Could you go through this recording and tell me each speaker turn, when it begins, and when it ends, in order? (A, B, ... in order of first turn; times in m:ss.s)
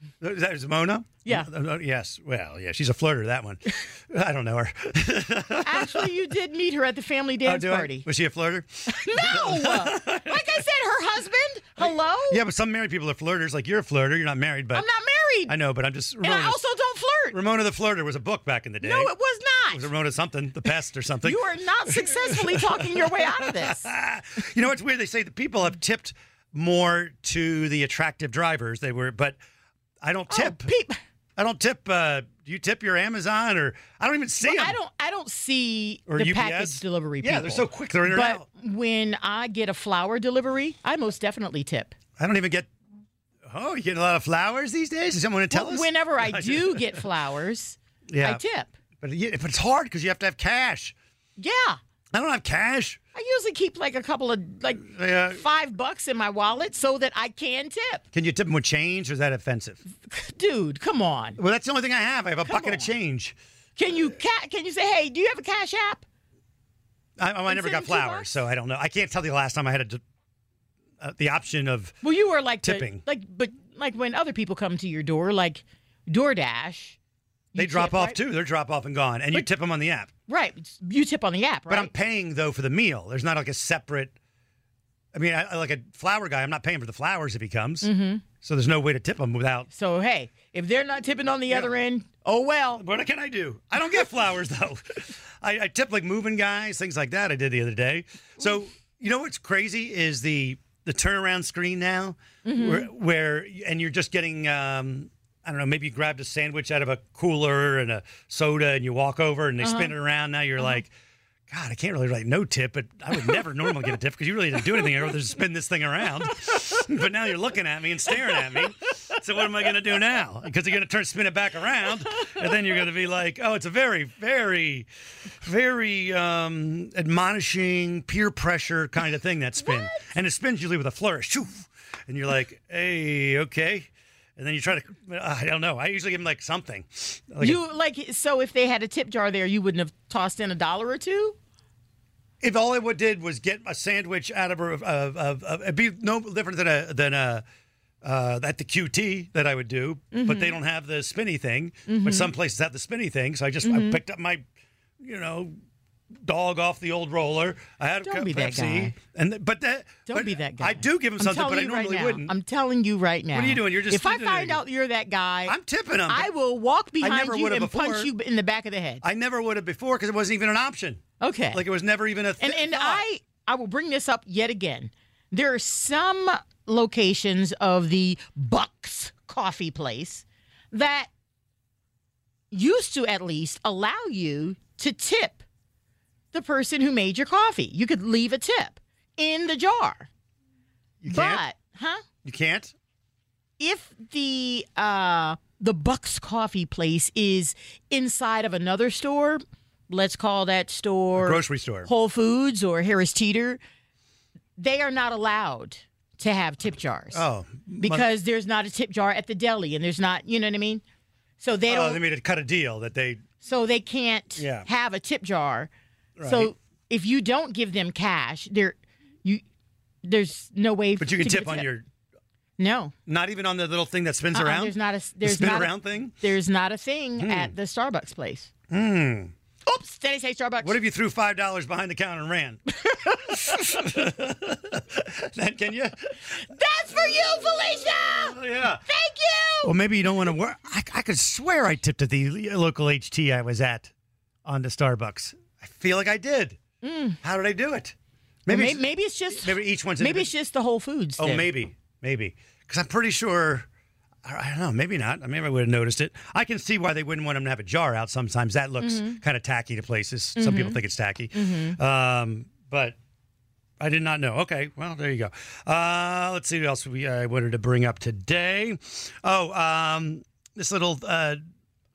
0:00.2-0:06.1 A
0:05.6-0:08.1 B
0:07.4-0:10.6 A
0:08.9-0:12.4 B
0:11.8-0:14.9 A
0:14.7-0:15.6 B
0:15.5-0:16.6 A
0:16.2-0:17.4 B
0:17.3-0:19.1 A
0:18.8-0:19.9 B
0:19.7-0:29.4 A
0:21.2-0:23.9 B
0:30.0-0:30.7 A
0:30.3-0:31.0 B
0:31.4-0:34.8 A
0:34.4-0:42.0 B
0:36.1-0:38.5 A
0:42.2-0:42.7 A
0:43.5-0:47.0 A
0:45.5-0:48.7 B
0:48.1-0:48.4 A
0:49.0-0:51.0 A
0:51.4-0:51.8 B
0:52.1-0:53.0 A
0:53.1-0:58.0 B
0:54.9-0:55.4 A
0:58.1-0:59.8 A
0:59.9-1:01.4 B
1:01.4-1:03.4 A
1:02.4-1:02.9 B
1:03.8-1:06.0 B
1:07.2-1:10.0 A
1:07.5-1:08.4 B
1:11.0-1:12.0 A
1:12.0-1:17.0 B
1:12.6-1:13.0 A
1:17.5-1:18.2 B
1:17.6-1:20.1 A
1:20.3-1:21.9 B
1:21.7-1:24.1 A
1:25.1-1:29.7 A
1:27.8-1:28.2 B
1:29.7-1:32.8 B
1:32.8-1:50.9 A
1:42.4-1:42.9 B
1:49.6-1:49.9 B
1:51.5-2:04.9 A
2:05.4-2:17.6 A
2:09.6-2:10.1 B
2:17.4-2:21.4 B
2:22.4-2:27.4 A
2:28.0-2:34.4 A
2:30.1-2:30.6 B
2:31.9-2:32.3 B
2:33.6-2:34.0 B
2:35.0-2:35.6 A
2:36.2-2:42.4 A
2:38.0-2:39.0 B
2:40.1-2:45.6 B
2:43.3-2:44.6 A
2:45.5-2:46.3 A
2:46.1-2:49.0 B
2:47.0-2:48.1 A
2:49.0-2:53.0 A
2:51.2-2:51.6 B
2:52.4-3:01.1 B
3:02.5-3:05.4 B
3:06.3-3:10.1 B
3:11.0-3:11.4 A
3:11.1-3:12.0 B
3:12.2-3:12.7 A
3:13.6-3:23.6 B
3:21.2-3:21.9 A
3:24.6-3:27.2 B
3:27.1-3:28.1 A
3:27.8-3:30.8 B
3:31.4-3:32.0 B
3:31.7-3:33.2 A
3:33.4-3:35.7 B
3:34.4-3:34.7 A
3:36.2-3:36.5 A
3:36.2-3:39.4 B
3:40.0-3:41.7 B
3:41.0-3:41.9 A
3:42.6-3:42.9 B
3:43.1-3:46.2 A
3:44.3-3:48.5 B
3:47.2-3:47.5 A
3:48.7-3:49.3 A
3:49.6-3:50.8 B
3:50.6-3:56.1 A
3:52.9-3:53.5 B
3:56.4-3:59.8 B
3:58.3-3:58.8 A
3:59.6-4:03.9 A
4:04.4-4:06.6 A
4:06.8-4:07.2 B
4:07.2-4:08.0 A
4:08.5-4:08.8 A
4:08.5-4:11.5 B
4:09.3-4:10.3 A
4:11.2-4:13.7 A
4:14.2-4:23.0 A
4:18.8-4:19.2 B
4:20.4-4:20.8 B
4:21.3-4:21.8 B
4:23.8-4:31.4 A